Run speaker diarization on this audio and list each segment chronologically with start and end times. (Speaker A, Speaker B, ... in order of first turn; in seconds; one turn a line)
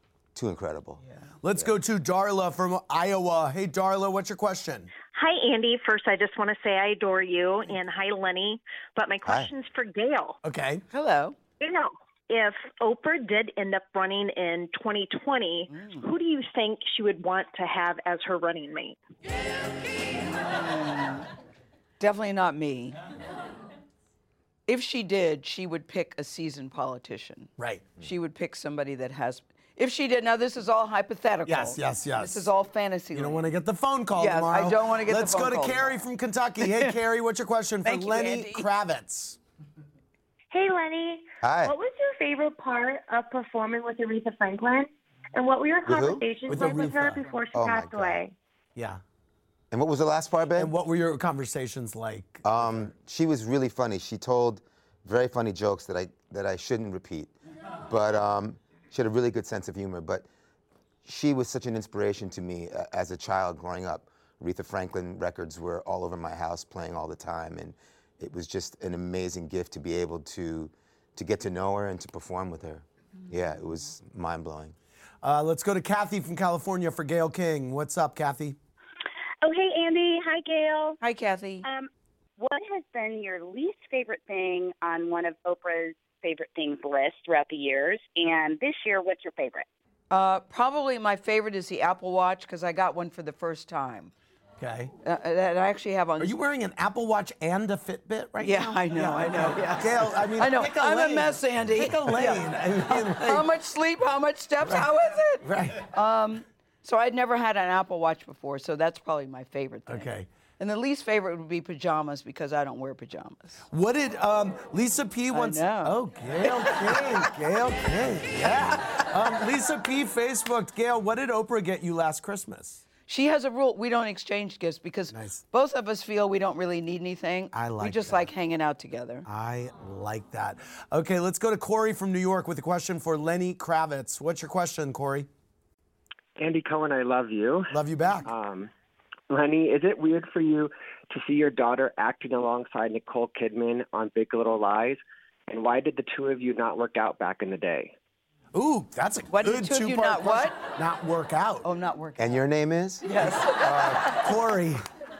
Speaker A: 0.3-1.0
Speaker B: 1.4-4.9
Speaker C: 5.1-10.4
Speaker A: 9.2-9.5
Speaker B: 10.4-10.8
Speaker D: 10.9-11.3
Speaker C: 11.6-19.0
Speaker D: 15.7-16.0
Speaker D: 20.4-21.2
Speaker D: 22.0-23.0
Speaker D: 24.7-33.5
Speaker B: 27.6-27.8
Speaker B: 31.5-32.5
Speaker B: 33.1-39.4
Speaker D: 34.1-36.0
Speaker D: 36.6-36.9
Speaker D: 37.8-38.7
Speaker E: 40.5-48.2
Speaker A: 41.4-41.7
Speaker A: 45.9-46.4
Speaker B: 46.5-47.2
Speaker A: 47.5-48.2
Speaker B: 48.8-49.0
Speaker A: 49.7-50.7
Speaker B: 50.6-52.9
Speaker A: 52.4-57.3
Speaker A: 57.9-60.2
Speaker A: 61.0-74.7
Speaker B: 75.2-78.6
Speaker F: 79.4-81.0
Speaker D: 81.0-81.6
Speaker F: 81.6-89.7
Speaker D: 90.1-94.1
Speaker B: 94.6-94.9
Speaker D: 95.0-96.3
Speaker B: 96.2-103.5
Speaker D: 98.4-113.6
Speaker B: 104.6-104.9
Speaker B: 105.4-105.9
Speaker B: 109.9-110.3
Speaker B: 113.7-122.8
Speaker D: 115.3-117.2
Speaker D: 123.1-129.2
Speaker B: 125.1-125.4
Speaker B: 127.5-128.3
Speaker B: 129.3-135.3
Speaker G: 136.4-138.7
Speaker B: 137.7-138.3
Speaker G: 139.3-147.9
Speaker B: 148.5-151.7
Speaker D: 149.3-150.6
Speaker D: 151.6-152.4
Speaker A: 152.2-154.2
Speaker D: 153.0-154.3
Speaker B: 154.1-154.8